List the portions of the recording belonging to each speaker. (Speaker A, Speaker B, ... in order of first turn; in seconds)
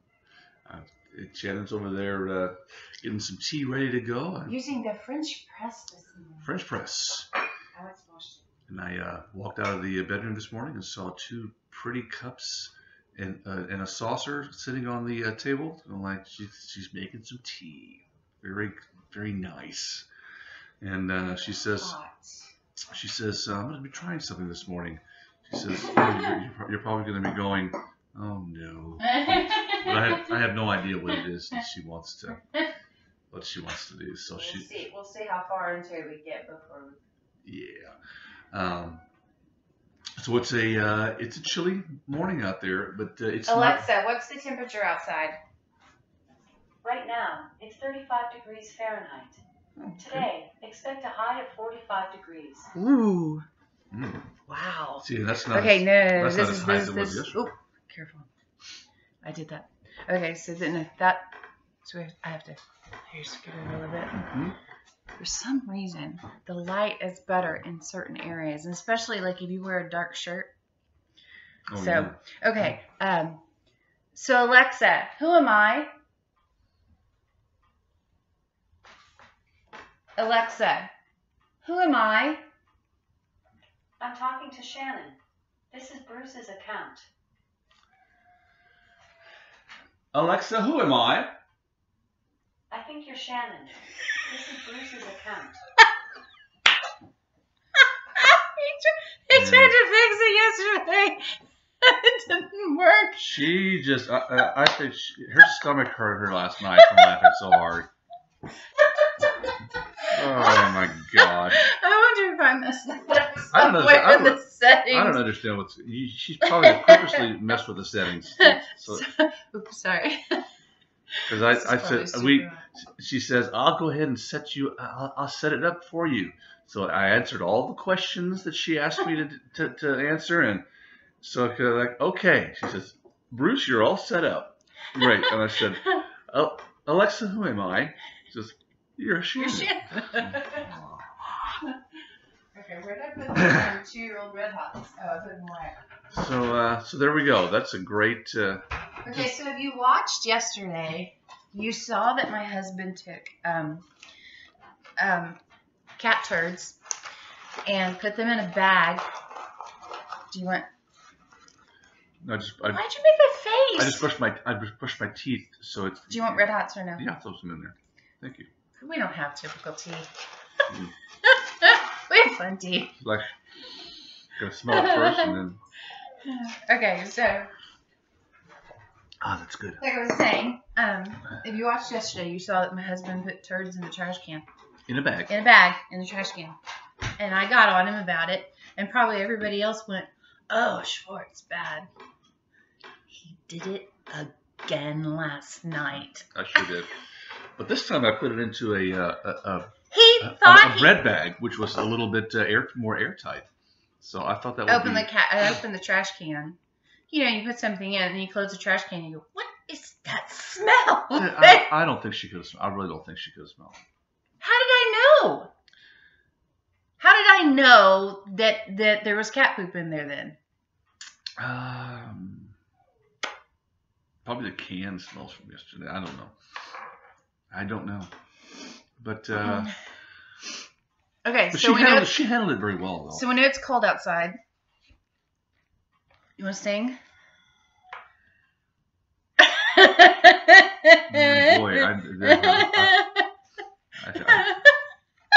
Speaker A: 0.7-4.5, 6.4-7.3, 8.7-20.1, 20.8-21.9, 22.9-32.4, 33.3-34.7, 37.4-38.0, 38.5-39.0, 40.2-43.9, 49.8-50.3, 53.9-54.2, 55.0-57.4, 64.1-64.6, 71.7-72.7, 90.1-91.3, 99.3-99.8, 103.2-107.9, 110.1-111.7, 113.5-119.0, 121.3-130.7, 131.2-141.1, 146.1-149.3, 162.2-162.8, 163.8-168.5, 173.0-173.3, 174.4-175.6, 179.2-179.8, 184.9-185.3, 196.3-196.9, 197.6-203.5, 204.0-205.1, 211.1-213.8, 221.4-222.6, 224.2-226.3, 227.5-228.1, 229.0-229.7, 231.5-233.2, 241.1-243.0, 244.0-244.5
Speaker B: 4.5-6.5, 7.8-8.4, 21.7-22.4, 25.9-26.4, 29.0-30.3, 34.4-37.0, 43.5-45.4, 52.8-53.5, 54.5-58.3, 59.2-61.3, 61.8-64.2, 65.2-70.5, 71.7-73.4, 74.1-75.9, 80.2-80.9, 81.6-82.4, 98.2-103.2, 106.8-107.3, 109.0-115.2, 116.4-117.3, 118.4-120.4, 121.1-122.7, 135.0-135.3, 139.4-140.7, 142.5-145.8, 149.0-153.9, 155.0-155.4, 156.0-156.8, 157.7-159.0, 160.3-160.7, 162.7-164.1, 166.1-167.1, 168.8-170.1, 171.2-172.9, 174.7-175.4, 176.2-177.5, 179.8-184.5, 185.3-186.6, 187.2-191.9, 193.1-196.7, 199.9-201.0, 204.7-206.6, 207.1-211.7, 214.4-215.5, 217.0-220.4, 229.4-229.8, 231.2-232.2, 233.1-234.4, 236.4-237.0, 239.4-243.3, 244.2-244.7
Speaker C: 46.8-49.4, 50.0-52.7, 84.0-85.2, 85.7-87.1, 92.7-95.6